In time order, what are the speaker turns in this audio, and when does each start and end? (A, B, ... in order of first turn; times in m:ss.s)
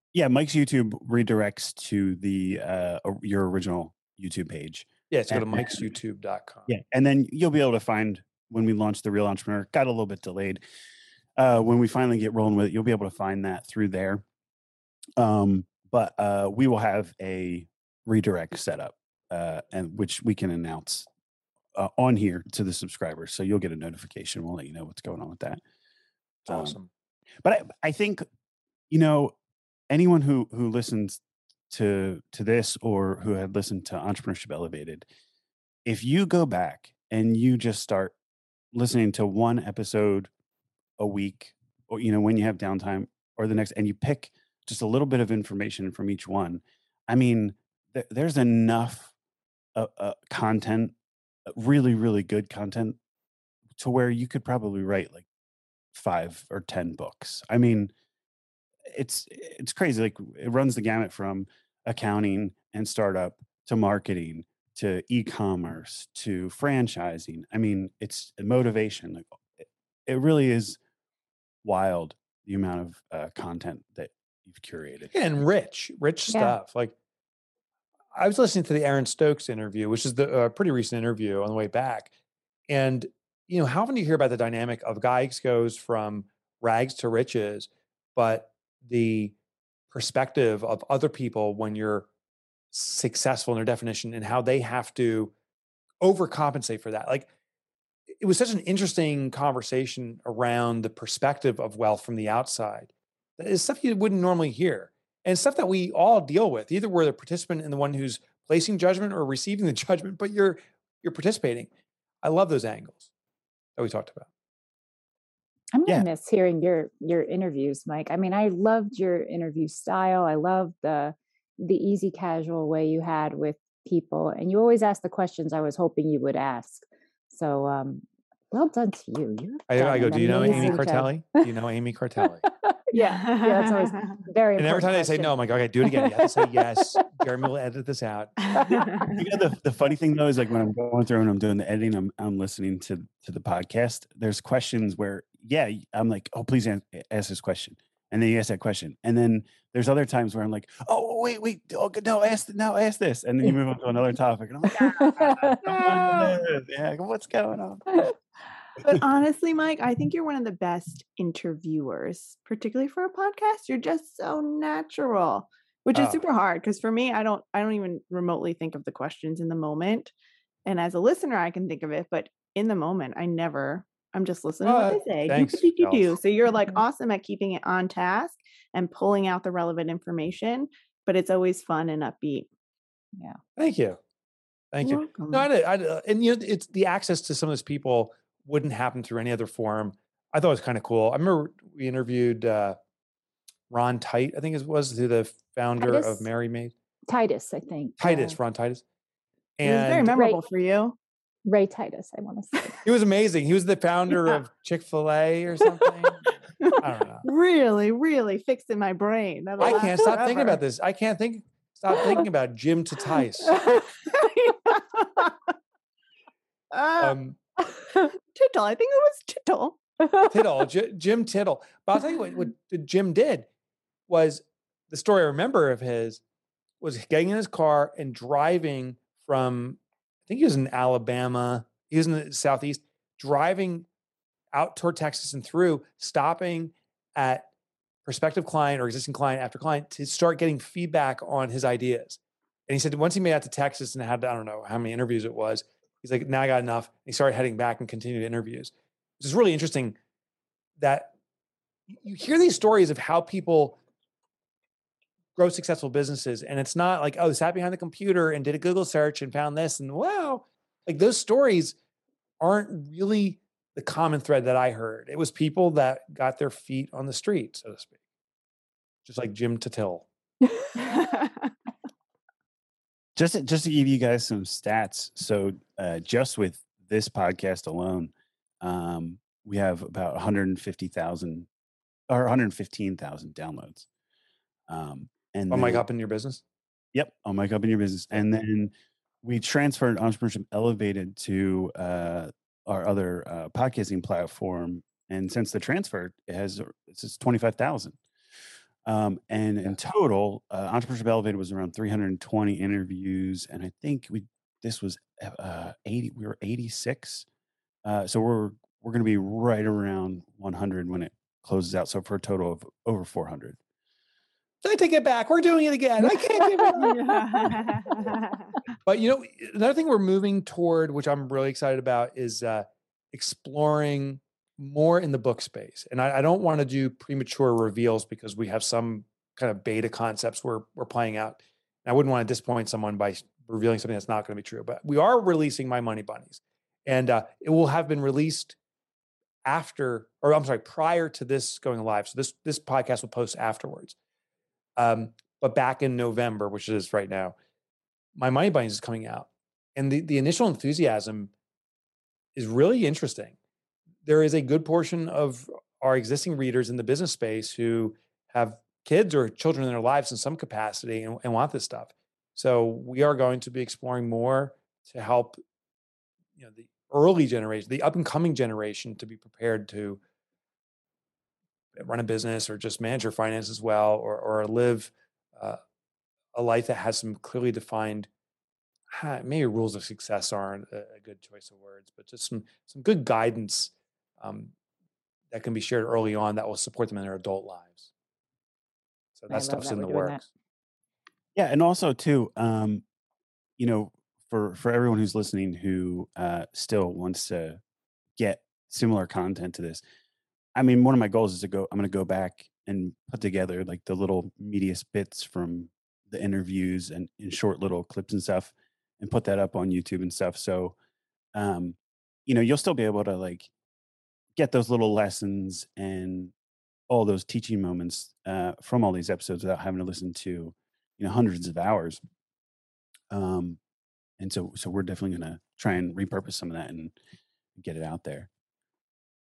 0:00.1-0:05.9 A
0:05.1-0:06.7 B
0:06.7-0:10.6 A
0:11.4-0:14.2 A
0:15.2-0:21.1 A
0:21.8-0:25.6 A
0:26.4-0:26.9 B
0:26.5-0:26.8 A
0:27.4-0:28.2 A
0:28.9-0:29.3 A
0:29.9-0:35.0 A
0:35.8-0:38.1 A
0:38.7-0:40.3 A
0:41.0-0:49.1 A
0:49.7-0:50.9 A
0:51.5-0:53.0 A
0:53.8-0:55.2 A
0:55.9-0:57.9 A
0:58.9-1:09.2 A
1:10.0-1:10.8 A
1:11.6-1:15.1 A
1:15.1-1:16.9 B
1:16.3-1:16.6 C
1:18.1-1:22.1 B
1:22.7-1:29.3 B
1:29.9-1:32.1 B
1:32.7-1:35.3 B
1:36.0-1:37.3 B
1:38.2-1:51.7 B
1:52.2-1:53.1 B
1:53.8-1:54.3 B
1:55.7-2:11.4 C
2:09.7-2:12.4 B
2:10.3-2:10.9 D
2:12.5-2:17.2 C
2:13.0-2:14.2 D
2:14.6-2:18.5 B
2:18.5-2:19.2 D
2:18.5-2:19.1 C
2:19.1-2:38.1 A
2:34.8-2:36.2 C
2:35.6-2:36.3 D
2:38.8-2:50.1 D
2:45.9-2:46.2 B
2:50.6-3:02.5 D
2:54.6-2:56.2 B
3:03.6-3:04.0 B
3:04.7-3:12.8 B
3:04.8-3:05.5 D
3:13.7-3:16.7 B
3:15.8-3:16.3 C
3:17.1-3:18.4 C
3:18.0-3:18.8 B
3:19.6-3:20.1 B
3:19.6-3:21.0 D
3:20.1-3:20.4 C
3:21.4-3:22.8 C
3:22.8-3:27.3 B
3:26.6-3:30.6 D
3:29.6-3:33.6 B
3:33.5-3:33.8 C
3:34.0-3:35.4 D
3:36.7-3:37.2 D
3:37.0-3:37.4 B
3:37.9-3:39.8 D
3:40.0-3:40.3 C
3:40.3-3:43.5 B
3:44.1-3:46.2 B
3:46.8-3:53.9 B
3:54.5-3:57.5 B
3:58.0-4:10.0 B
4:10.8-4:11.1 B
4:12.0-4:13.8 B
4:15.4-4:21.7 B
4:22.4-4:27.9 B
4:29.0-4:30.1 B
4:30.8-4:31.5 D
4:33.2-4:41.5 A
4:42.1-4:43.8 A
4:44.7-4:45.8 A
4:45.5-4:46.4 B
4:46.9-4:58.0 A
4:58.8-5:07.2 A
5:07.8-5:13.6 A
5:14.6-5:17.0 B
5:16.4-5:17.9 C
5:16.7-5:18.5 D
5:18.8-5:38.6 B
5:39.4-5:43.9 B
5:44.8-5:47.3 B
5:48.2-5:51.3 B
5:52.3-5:53.3 B
5:54.0-6:05.4 B
6:06.4-6:10.0 B
6:11.8-6:15.6 B
6:16.3-6:18.1 B
6:18.9-6:24.5 B
6:25.3-6:27.9 B
6:29.2-6:30.2 B
6:29.3-6:30.2 C
6:31.3-6:32.8 A
6:33.6-6:37.6 A
6:38.2-6:39.8 A
6:40.6-6:50.7 A
6:51.3-6:53.5 A
6:54.4-6:56.3 A
6:56.9-7:02.0 A
7:03.1-7:03.6 A
7:04.2-7:06.9 A
7:07.6-7:08.3 A